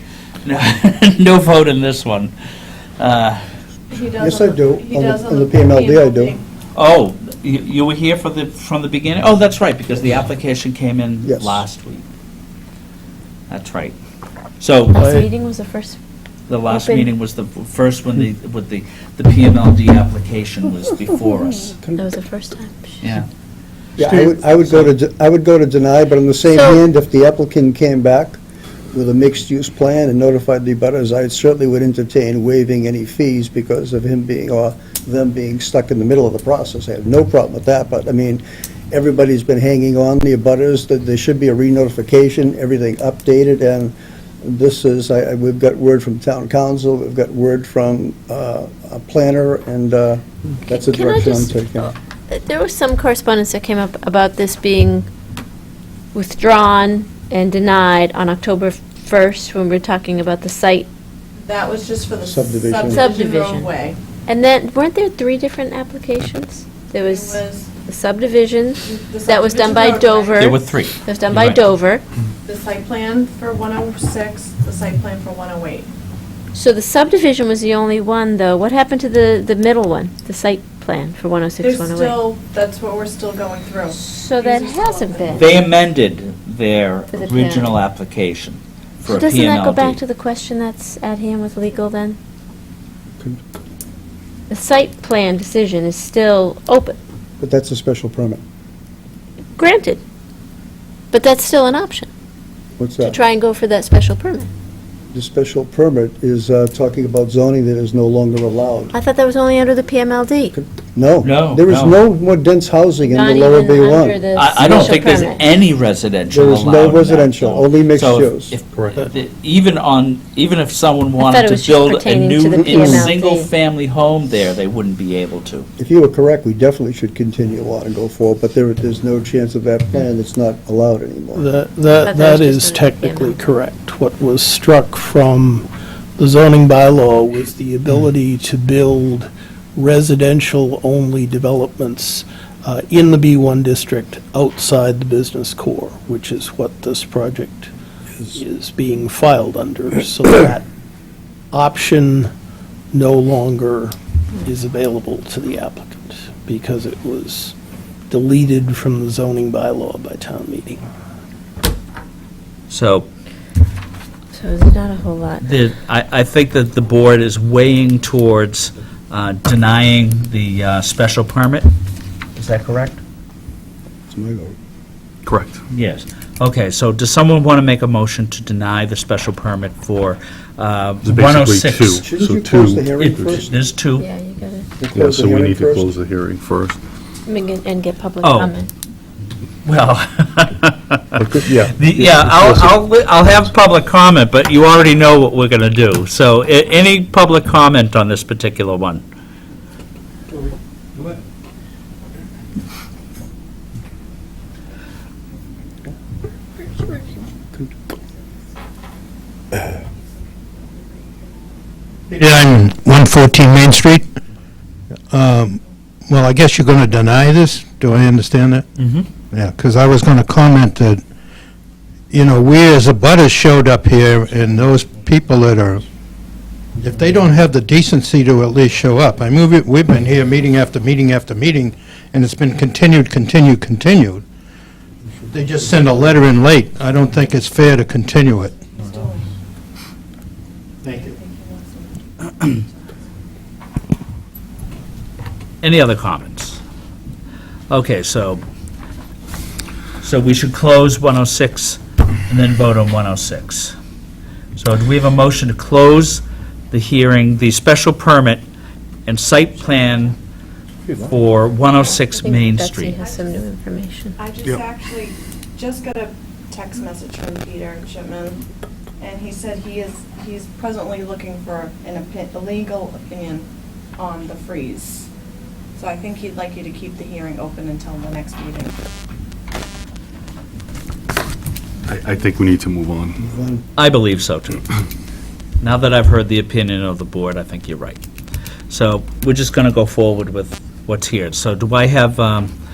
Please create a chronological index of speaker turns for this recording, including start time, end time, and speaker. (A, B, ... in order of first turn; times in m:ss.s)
0:00.4-0:02.3 A
0:03.0-0:03.4 A
0:03.9-0:06.4 B
0:04.2-0:06.4 C
0:06.8-0:12.0 A
0:11.2-0:11.6 C
0:13.5-0:14.0 A
0:14.6-0:15.3 A
0:14.9-0:16.0 D
0:16.5-0:21.8 A
0:16.7-0:17.1 D
0:22.0-0:23.0 D
0:23.0-0:23.3 A
0:24.0-0:28.4 C
0:24.0-0:24.9 A
0:28.9-0:51.9 C
0:50.9-0:51.5 D
0:52.3-0:55.1 D
0:56.1-1:00.9 D
1:01.4-1:04.0 B
1:02.2-1:03.0 C
1:02.9-1:03.7 D
1:04.3-1:07.4 D
1:07.0-1:07.7 B
1:07.9-1:12.0 D
1:08.8-1:10.6 B
1:10.4-1:11.6 A
1:12.5-1:15.9 B
1:16.6-1:22.2 D
1:21.6-1:25.6 B
1:24.0-1:25.4 D
1:25.3-1:30.0 A
1:27.1-1:27.8 D
1:29.1-1:32.2 D
1:34.5-1:37.0 D
1:37.4-1:38.4 C
1:39.6-1:40.0 D
1:41.1-1:42.1 D
1:42.8-1:43.2 C
1:43.1-1:44.5 D
1:45.1-1:48.9 C
1:48.9-1:50.6 D
1:50.6-1:54.2 C
1:51.2-1:52.0 A
1:53.1-1:55.4 D
1:54.3-2:05.7 A
1:56.3-1:58.6 C
2:01.2-2:03.5 D
2:02.5-2:03.1 C
2:05.8-2:11.5 C
2:11.4-2:27.7 E
2:12.1-2:13.3 D
2:28.3-2:30.7 E
2:31.5-2:32.3 E
2:32.9-2:37.5 E
2:38.1-2:40.8 E
2:42.7-2:43.1 A
2:44.3-2:45.4 D
2:45.4-2:51.7 A
2:52.4-2:53.0 A
2:54.1-2:54.6 C
2:55.3-2:55.6 F
2:55.7-3:02.0 A
3:01.0-3:03.3 F
3:01.9-3:03.5 C
3:03.0-3:04.1 A
3:04.0-3:04.7 D
3:04.8-3:05.9 C
3:05.0-3:06.8 F
3:07.3-3:08.7 D
3:08.2-3:08.5 A
3:09.6-3:19.0 A
3:11.2-3:12.8 F
3:29.7-3:31.6 B
3:32.1-3:34.2 G
3:35.1-3:38.7 G
3:38.8-3:39.1 A
3:39.3-3:41.0 G
3:42.1-3:45.8 G
3:46.8-3:54.2 G
3:55.3-3:58.6 G
3:58.4-3:59.3 B
4:00.8-4:03.1 B
4:05.6-4:06.6 A
4:07.7-4:08.4 A
4:10.0-4:13.8 A
4:14.6-4:18.4 A
4:19.1-4:20.2 A
4:21.0-4:23.0 A
4:22.2-4:24.2 D
4:23.0-4:23.4 B
4:24.2-4:28.4 B
4:29.0-4:35.1 B
4:35.8-4:38.8 B
4:41.9-4:43.2 F
4:43.2-4:43.6 C
4:43.8-4:44.6 A
4:45.6-4:48.0 A
4:48.7-4:52.5 A